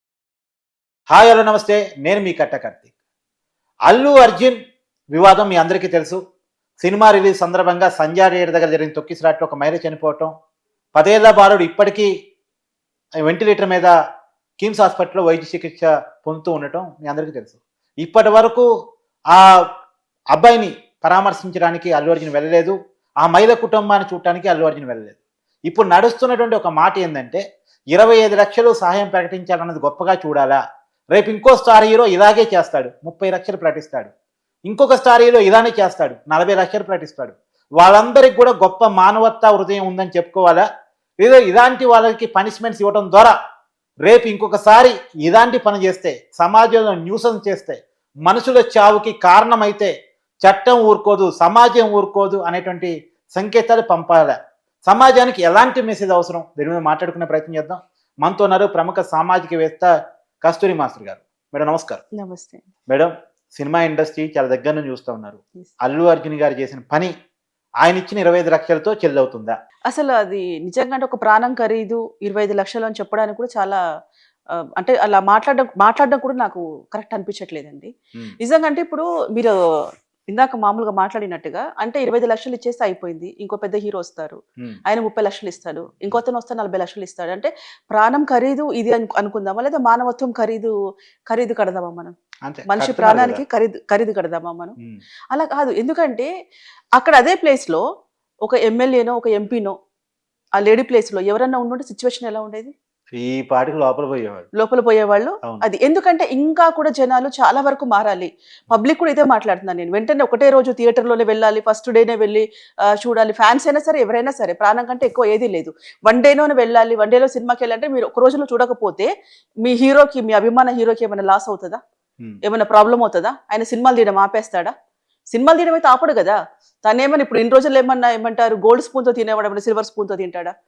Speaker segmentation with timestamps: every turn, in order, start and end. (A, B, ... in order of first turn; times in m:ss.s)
0:01.1-0:02.9 A
0:03.9-0:04.6 A
0:05.1-0:06.2 A
0:06.8-0:10.3 A
0:11.0-0:12.1 A
0:13.2-0:13.9 A
0:14.6-0:18.7 A
0:19.3-0:19.6 A
0:20.3-0:27.4 A
0:27.9-0:30.6 A
0:31.1-0:34.1 A
0:34.7-0:40.7 A
0:41.2-0:43.4 A
0:44.0-0:49.9 A
0:50.4-0:59.9 A
1:00.4-1:02.0 A
1:02.2-1:02.6 B
1:02.9-1:07.1 A
1:07.8-1:09.6 A
1:09.9-1:13.8 B
1:14.8-1:19.6 B
1:20.3-1:30.7 B
1:31.3-1:32.2 B
1:32.4-1:33.4 A
1:32.7-1:34.8 B
1:35.3-1:36.3 B
1:37.0-1:37.8 B
1:38.5-1:39.7 B
1:40.6-1:42.7 B
1:43.1-1:44.5 A
1:44.5-1:59.1 B
1:59.6-2:01.8 B
2:02.4-2:04.7 B
2:05.3-2:10.5 B